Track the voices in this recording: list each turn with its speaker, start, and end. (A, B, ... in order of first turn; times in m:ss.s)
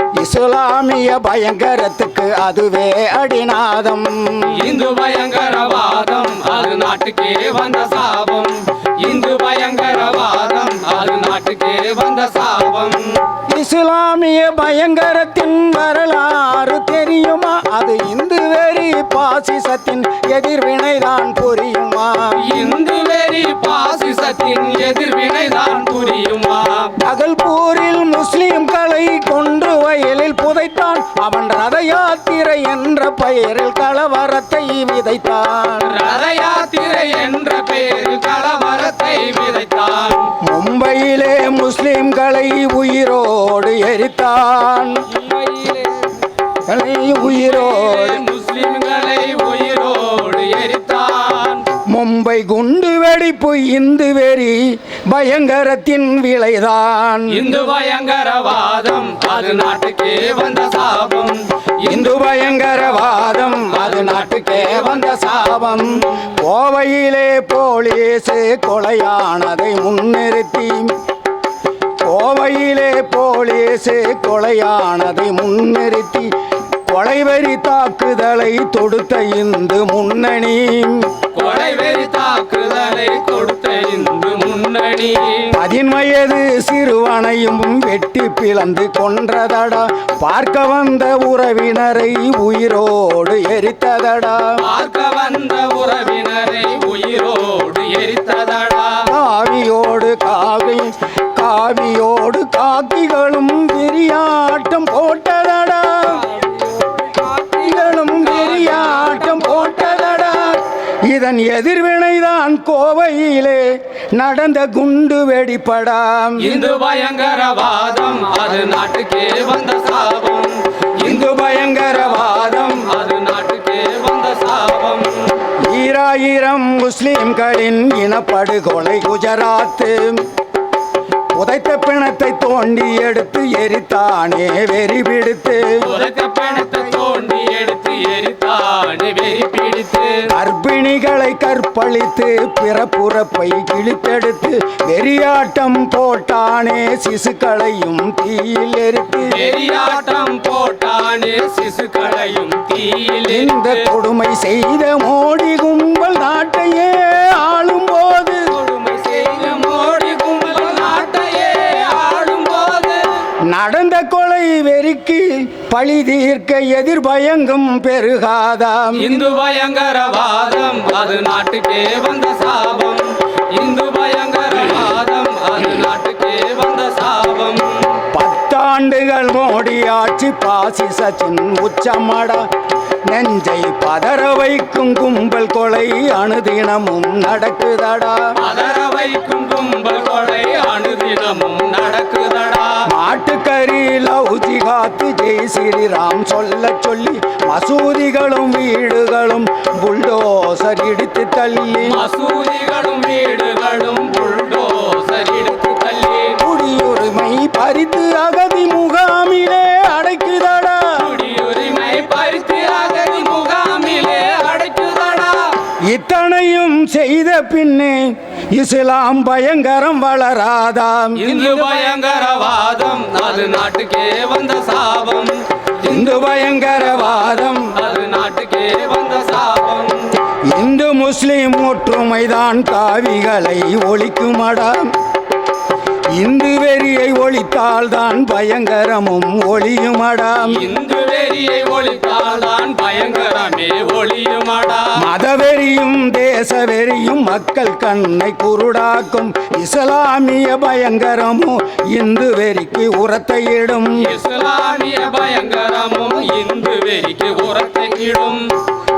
0:00.2-0:04.6 A
0:04.5-0:13.2 B
0:13.5-0:22.4 A
0:22.4-0:26.9 B
0:27.0-0:36.0 A
0:35.8-0:40.3 B
0:40.4-0:45.1 A
0:45.1-0:46.1 B
0:46.7-0:48.2 A
0:47.2-0:51.6 B
0:51.9-0:57.5 A
0:57.3-1:02.0 B
1:01.8-1:10.9 A
1:03.7-1:05.3 B
1:12.0-1:16.3 A
1:16.9-1:21.1 A
1:21.3-1:25.5 B
1:25.5-1:34.6 A
1:34.6-1:39.1 B
1:39.1-1:46.6 A
1:47.3-1:53.6 A
1:48.3-1:49.5 B
1:54.2-1:56.6 A
1:56.4-2:05.3 B
2:01.0-2:02.3 A
2:05.7-2:10.2 A
2:11.3-2:15.6 A
2:15.8-2:20.3 B
2:20.3-2:29.4 A
2:29.2-2:33.9 B
2:33.3-2:38.5 A
2:38.5-2:43.1 B
2:43.5-2:49.1 A
2:49.0-2:57.8 B
2:58.1-3:02.4 A
3:03.1-3:08.2 A
3:08.4-3:12.9 B
3:12.9-3:22.0 A
3:21.8-3:26.4 B
3:26.4-3:30.8 A
3:31.0-3:35.5 B
3:35.9-3:41.2 A
3:41.2-3:45.4 B
3:45.8-3:47.7 A
3:47.7-3:50.1 B
3:50.5-3:54.9 A
3:56.2-4:00.6 A
4:00.5-4:05.0 B
4:05.0-4:14.1 A
4:14.0-4:18.5 B